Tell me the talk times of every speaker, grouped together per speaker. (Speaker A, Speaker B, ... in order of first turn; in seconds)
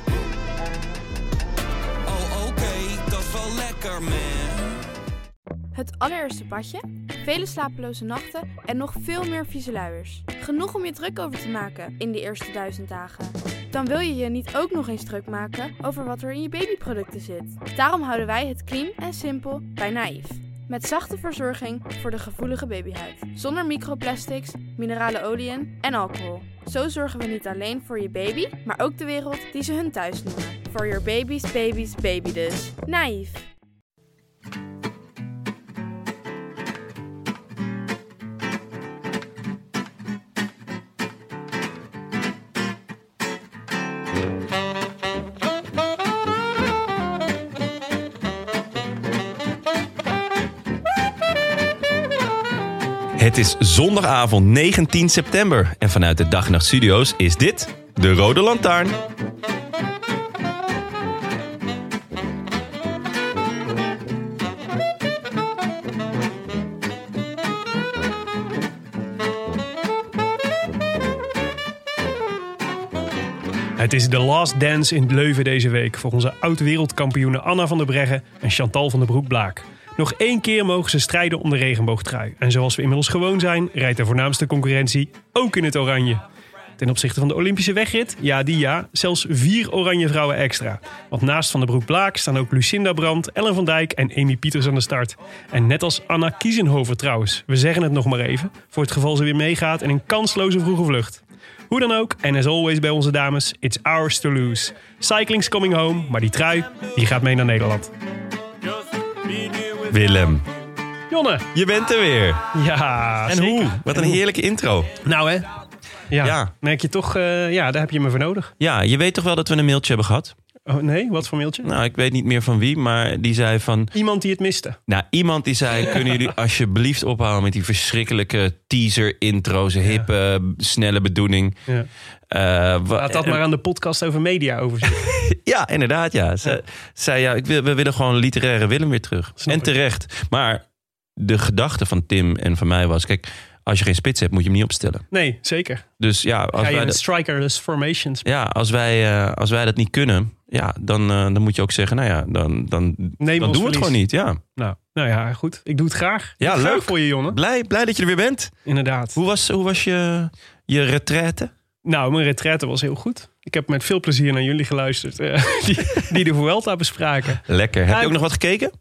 Speaker A: 2.0-4.8
Speaker B: 5.7-33.5
Speaker C: 53.2-59.0, 109.9-110.5, 111.5-112.5, 113.3-114.9, 116.2-116.5, 118.6-120.3, 121.6-123.9, 124.9-131.6, 132.3-133.4, 134.9-140.6, 141.2-145.1, 146.0-147.0, 148.2-154.4, 156.4-158.6, 159.1-161.5, 167.4-168.7
Speaker D: 73.8-86.2, 86.8-107.9, 111.1-111.5, 112.5-114.2, 115.0-115.5, 116.1-118.5, 120.7-121.7, 123.9-124.8, 133.0-135.1, 139.4-139.7, 145.1-145.8, 146.5-148.2, 153.2-154.0, 154.6-157.4, 158.6-159.2, 161.8-168.1